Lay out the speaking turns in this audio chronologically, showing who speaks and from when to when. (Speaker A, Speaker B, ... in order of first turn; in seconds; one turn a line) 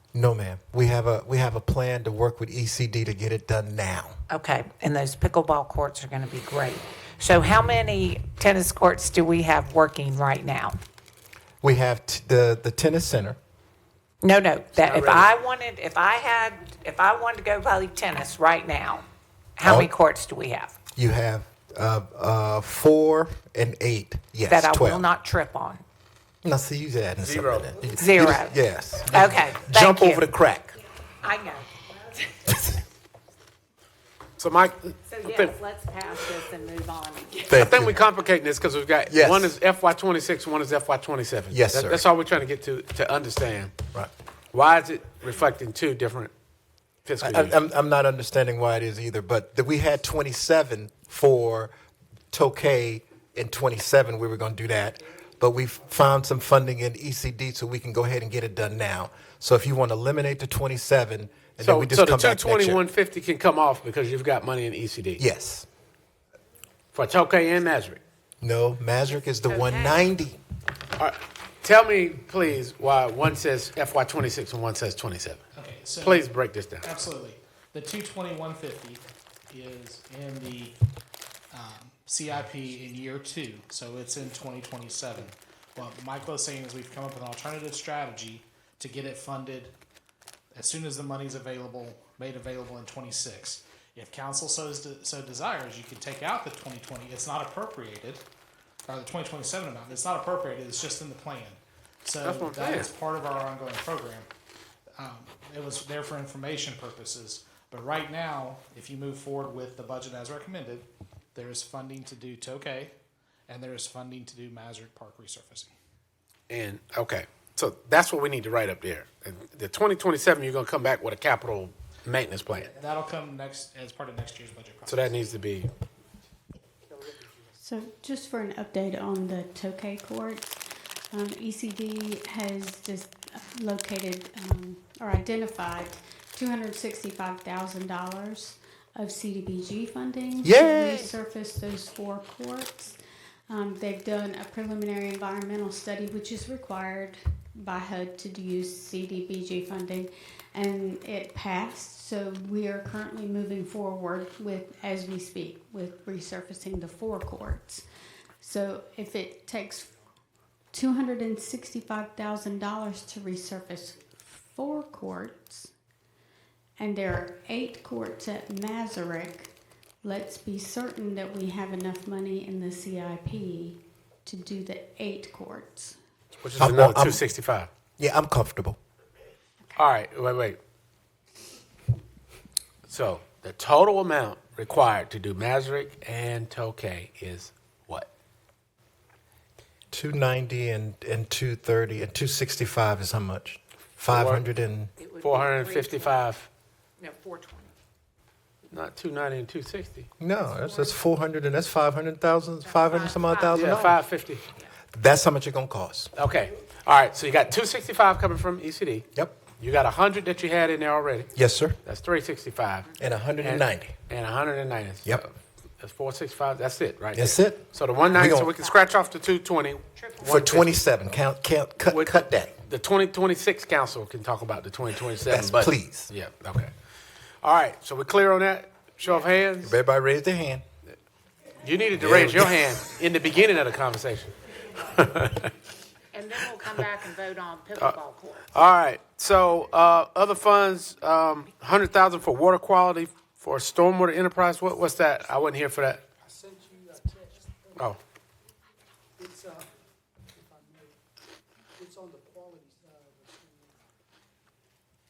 Speaker A: 0.1-4.2
Speaker B: 4.3-10.8
Speaker A: 11.6-13.4
Speaker B: 14.2-19.0
Speaker C: 14.8-15.3
Speaker B: 19.6-20.8
Speaker A: 19.6-19.9
Speaker A: 20.9-25.1
Speaker B: 24.5-25.8
Speaker A: 26.4-30.8
Speaker C: 27.2-27.8
Speaker B: 27.9-28.6
Speaker B: 29.1-30.3
Speaker B: 31.2-31.7
Speaker A: 32.5-32.8
Speaker C: 34.4-35.6
Speaker B: 35.1-37.7
Speaker A: 37.5-38.0
Speaker C: 37.6-43.7
Speaker A: 39.1-39.5
Speaker A: 41.5-42.1
Speaker C: 44.5-46.3
Speaker C: 47.0-47.6
Speaker A: 47.2-51.7
Speaker A: 52.3-62.8
Speaker C: 61.6-65.2
Speaker A: 65.2-65.7
Speaker C: 66.9-68.0
Speaker A: 68.4-70.4
Speaker B: 69.5-70.0
Speaker C: 71.0-75.4
Speaker D: 75.5-80.8
Speaker C: 76.0-76.9
Speaker D: 81.5-89.8
Speaker D: 90.5-98.2
Speaker D: 98.9-104.3
Speaker C: 102.2-102.9
Speaker D: 105.0-112.9
Speaker D: 113.5-115.7
Speaker C: 116.5-122.7
Speaker D: 122.7-125.2
Speaker C: 124.9-125.7
Speaker E: 127.6-130.6
Speaker E: 131.1-143.0
Speaker A: 140.4-141.1
Speaker E: 143.5-157.8
Speaker E: 158.4-159.9
Speaker E: 160.7-165.7
Speaker E: 166.8-176.0
Speaker C: 176.4-177.7
Speaker A: 176.6-177.2
Speaker A: 178.0-178.8
Speaker C: 179.8-180.6
Speaker C: 182.9-188.1
Speaker A: 189.9-194.9
Speaker C: 194.1-194.4
Speaker B: 195.0-196.2
Speaker C: 195.2-196.5
Speaker B: 197.0-197.7
Speaker C: 198.7-200.1
Speaker A: 200.2-204.0
Speaker B: 200.5-201.0
Speaker B: 202.7-203.9
Speaker C: 203.5-204.4
Speaker A: 204.9-206.1
Speaker C: 206.2-209.1
Speaker C: 209.6-211.3
Speaker A: 211.3-211.8
Speaker C: 211.8-212.9
Speaker A: 213.0-214.0
Speaker C: 213.4-220.7
Speaker A: 217.1-218.6
Speaker B: 218.0-218.7
Speaker B: 220.0-220.3
Speaker A: 220.2-222.5
Speaker C: 221.9-226.7
Speaker A: 225.2-226.1
Speaker C: 227.4-229.8
Speaker A: 229.6-230.6
Speaker C: 231.6-234.3
Speaker A: 232.0-232.5
Speaker C: 234.9-235.5
Speaker B: 236.1-238.5
Speaker C: 238.5-246.0
Speaker F: 246.4-247.3
Speaker F: 249.2-249.5
Speaker F: 251.8-252.7